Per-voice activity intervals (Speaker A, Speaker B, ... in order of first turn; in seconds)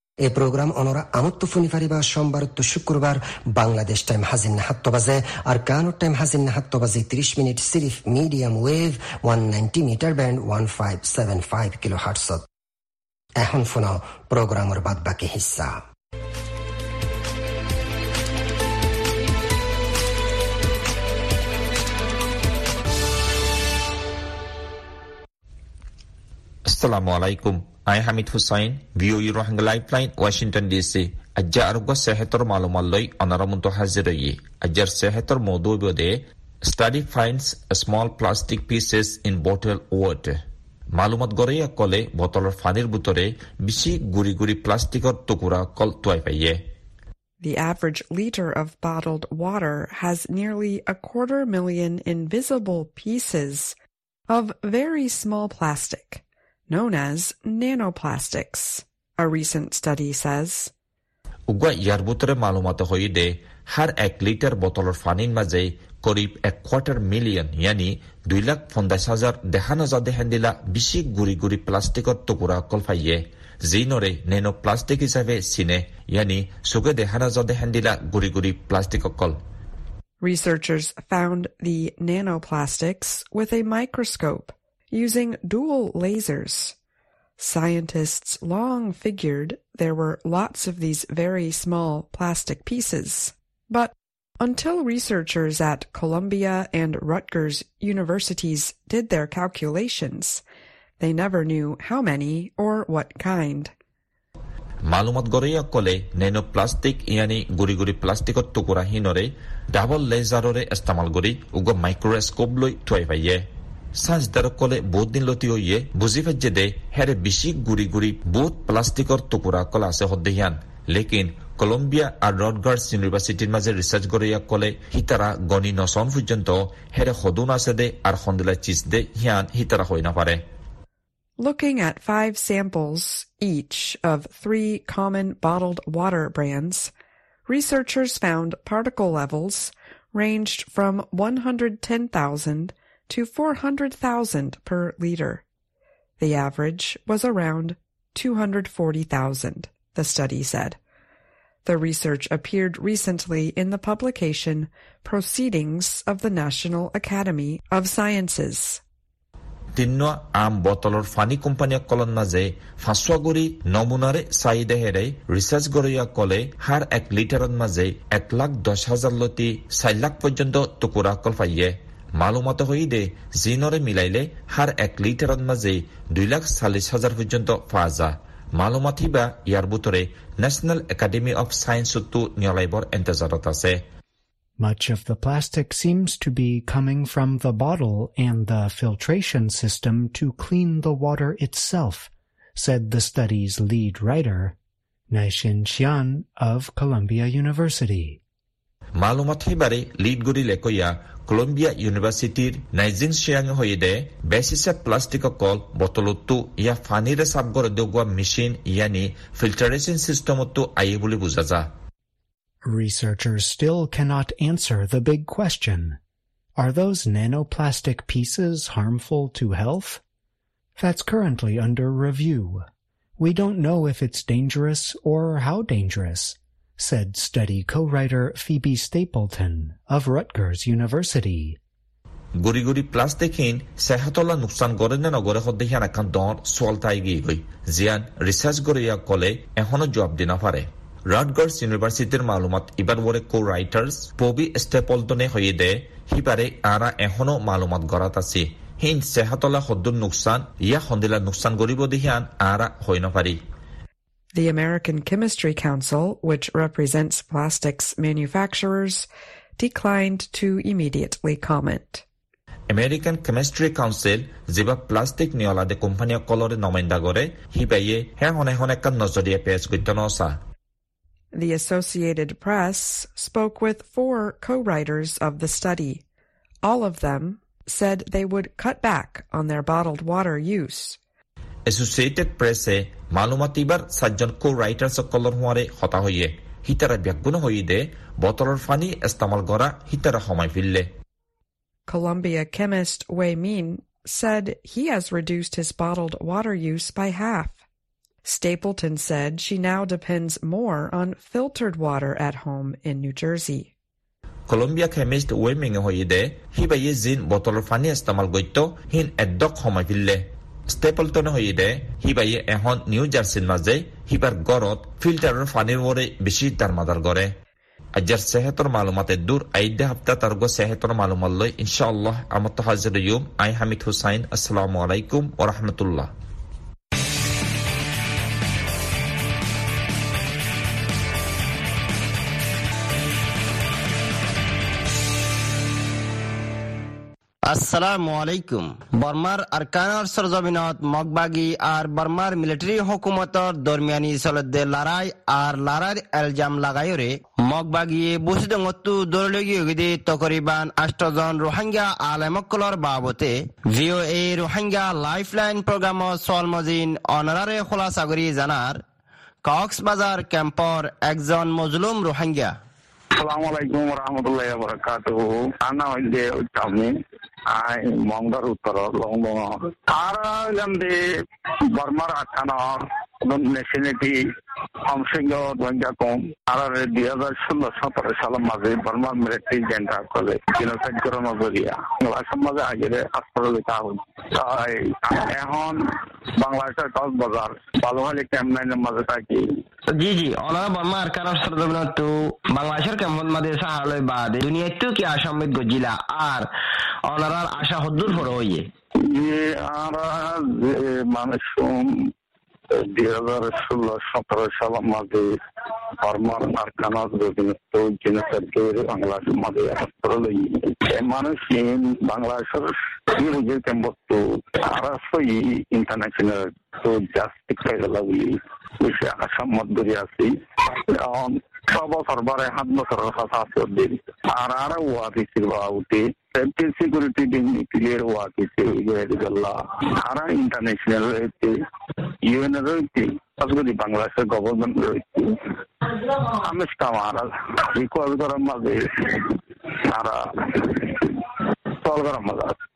Speaker A: 0.2-12.4, 13.4-15.8
Speaker B: 26.7-40.4, 40.9-46.6, 61.5-79.4, 104.9-130.4, 159.8-183.8, 199.0-211.7, 232.4-253.4, 262.7-270.4, 281.7-290.9, 304.5-317.3, 317.9-326.1
Speaker C: 47.4-53.7, 54.3-60.7, 80.2-86.7, 87.4-100.4, 101.0-103.7, 131.4-136.9, 137.5-145.4, 146.2-150.8, 151.6-158.8, 254.3-262.0, 271.3-276.0, 276.6-281.0, 291.9-297.6, 298.2-303.7
Speaker D: 184.6-194.6, 195.1-198.2, 212.6-216.0, 216.6-220.0, 220.8-222.6, 223.2-231.6
Speaker E: 337.5-358.8, 359.4-362.6, 389.9-396.5, 397.1-398.7
Speaker F: 363.2-366.9, 367.5-374.2, 374.8-385.8, 386.4-389.4, 399.0-402.1, 402.7-405.4, 406.0-431.5, 432.2-435.4, 436.3-442.6